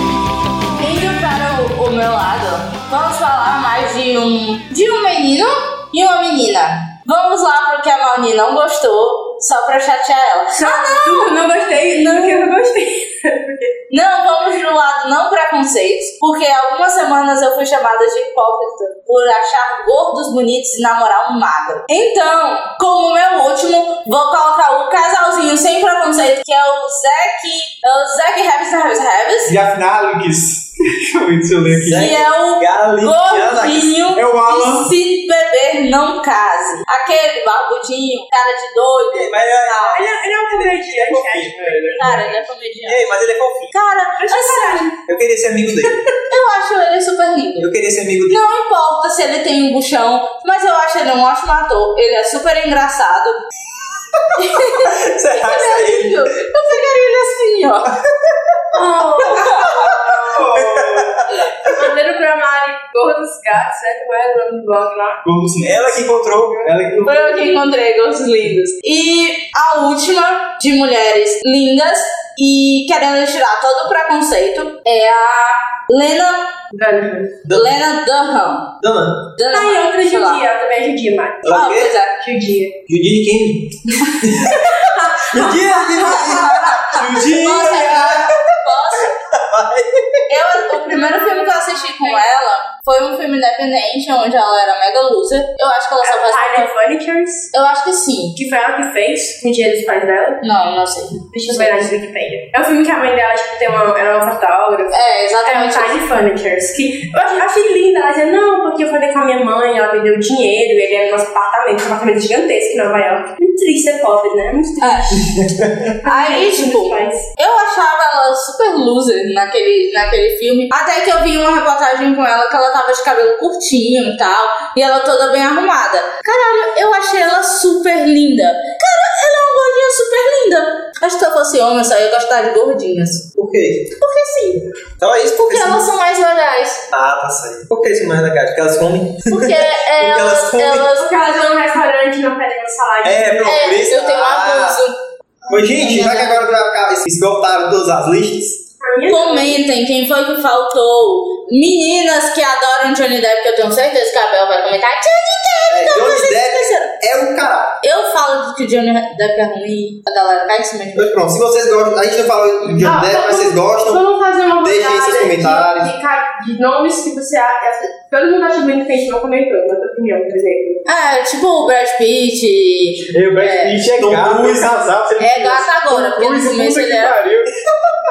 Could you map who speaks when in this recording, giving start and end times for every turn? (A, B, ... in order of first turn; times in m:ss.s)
0:00.8-0:12.6 A
0:10.5-0:13.7 B
0:13.9-0:29.6 A
0:29.4-0:32.2 C
0:31.7-0:34.0 D
0:31.9-0:40.0 A
0:34.1-0:34.9 C
0:39.1-0:41.8 D
0:39.9-0:42.0 B
0:41.5-0:42.5 C
0:42.0-0:44.9 A
0:42.8-0:43.7 D
0:44.2-0:45.0 B
0:45.1-0:46.1 D
0:46.3-0:47.7 A
0:47.6-0:48.4 D
0:48.3-0:53.4 A
0:54.2-0:56.2 D
0:54.4-0:57.9 A
0:58.7-1:00.6 B
0:59.2-0:59.9 A
1:00.3-1:01.3 C
1:00.5-1:01.7 D
1:01.6-1:05.2 B
1:05.2-1:06.0 C
1:05.6-1:07.0 D
1:06.6-1:07.4 C
1:07.1-1:16.5 A
1:16.7-1:17.4 B
1:17.4-1:17.8 D
1:17.5-1:18.7 A
1:18.8-1:19.3 D
1:19.4-1:20.5 A
1:19.5-1:21.5 B
1:21.4-1:21.9 D
1:21.5-1:22.2 A
1:22.2-1:22.7 B
1:22.9-1:28.4 D
1:24.7-1:26.4 B
1:25.9-1:29.1 A
1:27.0-1:27.8 C
1:29.0-1:30.3 D
1:30.3-1:36.7 A
1:30.9-1:32.3 B
1:36.0-1:37.5 B
1:37.5-1:38.4 A
1:38.4-1:40.4 B
1:40.4-1:41.9 A
1:41.3-1:55.2 B
1:44.9-1:46.1 A
1:54.8-1:55.2 A
1:56.0-1:57.3 B
1:56.0-2:13.3 A
2:13.4-2:14.0 D
2:14.0-2:14.7 A
2:15.0-2:15.8 D
2:15.4-2:16.9 A
2:16.9-2:20.9 D
2:19.3-2:21.3 A
2:20.9-2:23.8 B
2:23.0-2:24.8 D
2:23.4-2:26.5 A
2:25.5-2:28.6 D
2:28.8-2:29.6 B
2:29.1-2:36.9 A
2:35.7-2:37.7 D
2:37.8-2:41.2 A
2:41.0-2:44.0 D
2:42.8-2:50.8 B
2:44.6-2:45.9 D
2:50.9-2:53.8 A
2:53.1-2:57.5 C
2:53.9-2:54.8 D
2:55.2-2:57.2 A